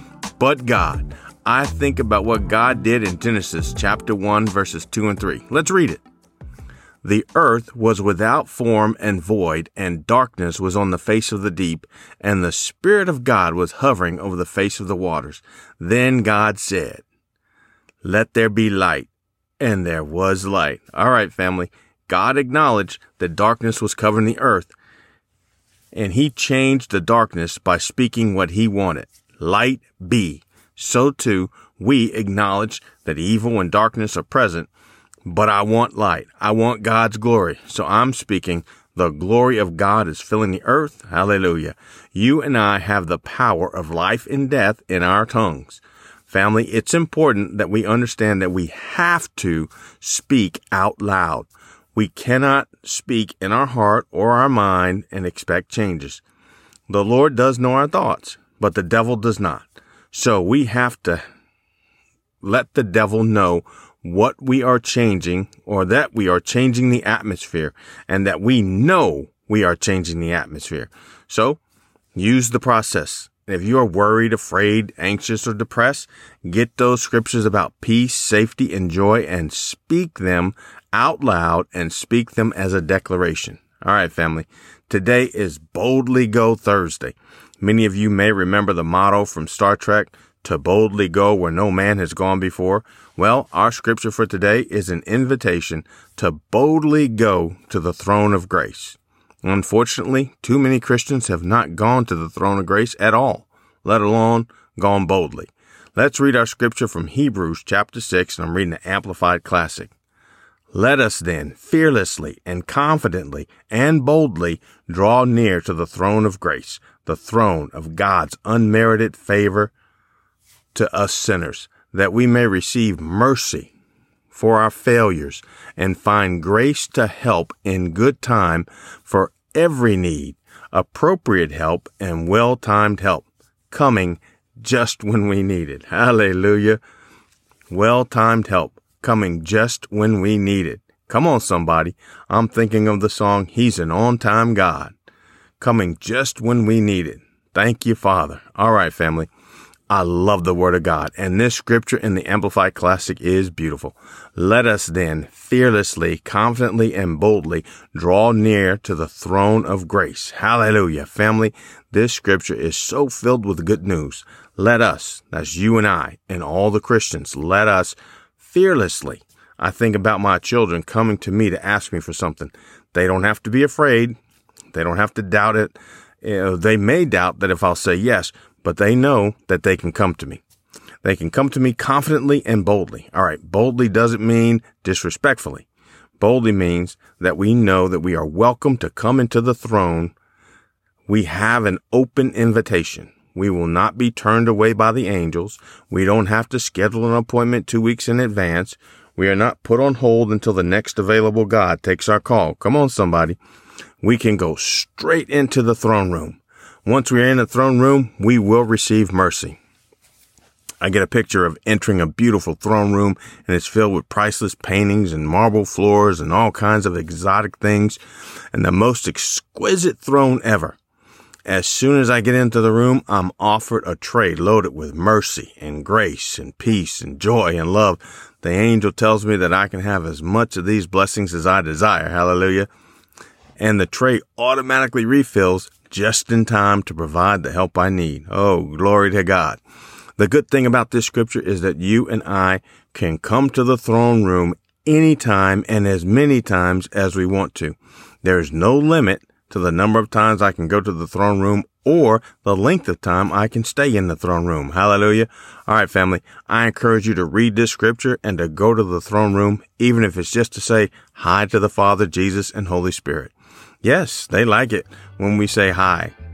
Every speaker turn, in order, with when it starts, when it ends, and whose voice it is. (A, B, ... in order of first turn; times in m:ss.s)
0:00.4-0:06.0 A
0:07.0-0:17.0 A
0:18.0-0:24.7 A
0:25.9-0:34.7 A
0:35.3-0:56.2 A
0:56.9-1:01.2 A
1:02.4-1:11.6 A
1:12.2-1:49.9 A
1:50.7-1:59.7 A
2:00.7-2:03.7 A
2:04.3-2:16.8 A
2:17.7-2:24.9 A
2:25.6-2:29.3 A
2:29.9-2:54.2 A
2:54.7-3:00.4 A
3:01.0-3:05.7 A
3:06.2-3:10.2 A
3:11.1-3:23.4 A
3:24.0-3:29.6 A
3:30.8-3:38.0 A
3:38.5-3:40.8 A
3:41.5-3:52.7 A
3:53.6-3:59.6 A
4:00.2-4:26.1 A